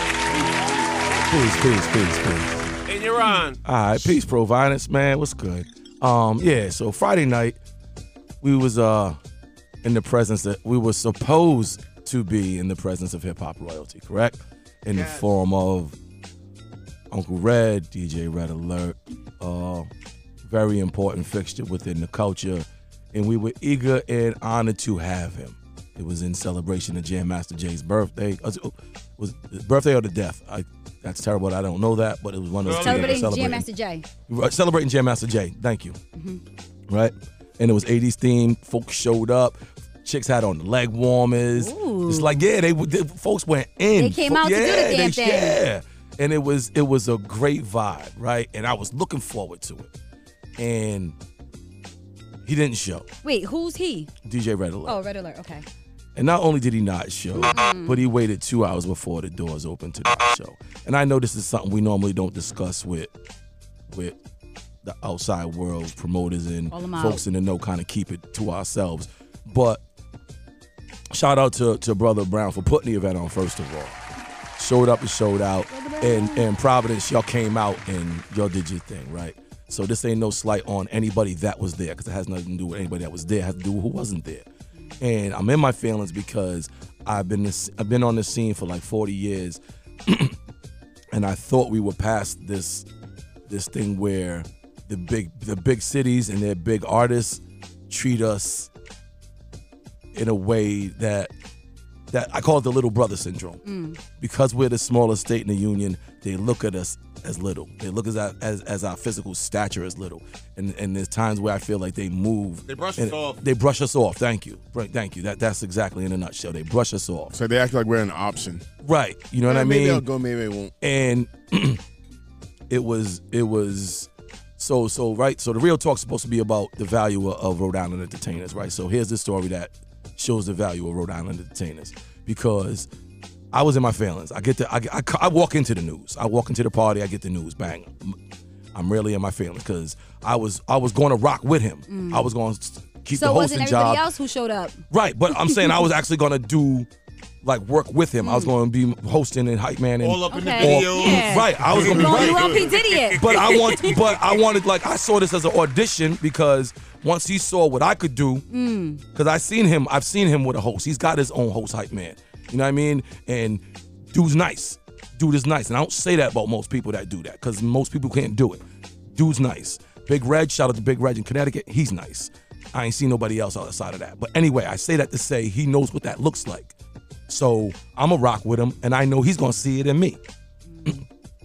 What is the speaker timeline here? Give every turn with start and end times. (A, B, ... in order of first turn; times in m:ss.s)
0:01.3-0:02.5 A
0:02.9-0:03.6 B
0:03.6-0:07.6 A
0:08.4-0:09.2 A
0:09.8-0:15.9 A
0:14.9-0:15.2 B
0:17.1-0:19.9 A
0:20.5-0:33.6 A
0:32.6-0:33.4 B
0:32.8-0:34.1 C
0:34.3-0:36.0 A
0:36.2-0:36.4 C
0:36.9-0:49.9 A
0:41.5-0:42.5 C
0:44.0-0:45.6 C
0:50.6-0:51.1 A
0:52.4-0:53.1 A
0:53.2-0:54.1 C
0:54.2-0:55.0 A
0:54.8-0:55.6 C
0:56.2-1:03.1 A
0:57.4-0:58.0 C
1:03.9-1:04.2 A
1:04.8-1:09.8 A
1:06.7-1:07.2 C
1:11.1-1:14.0 A
1:14.6-1:24.4 A
1:15.7-1:16.5 C
1:25.0-1:30.3 A
1:31.1-1:32.8 A
1:33.5-1:38.7 A
1:40.1-1:41.3 A
1:42.1-1:57.3 A
1:43.6-1:44.0 C
1:52.7-1:53.4 B
1:57.3-1:58.6 D
1:58.8-2:00.0 A
1:59.4-2:00.7 D
2:00.8-2:01.8 A
2:02.7-2:12.9 A
2:13.5-2:18.2 A
2:18.7-2:24.0 A
2:21.9-2:22.3 C
2:23.1-2:25.8 C
2:24.9-2:26.9 A
2:27.4-2:32.5 A
2:28.2-2:28.5 C
2:30.0-2:34.4 B
2:30.3-2:34.0 C
2:33.2-2:38.4 A
2:38.5-2:39.0 C
2:39.1-2:43.6 A
2:44.1-2:48.6 A
2:49.1-2:56.7 A
2:57.3-3:00.2 A
3:00.7-3:01.0 C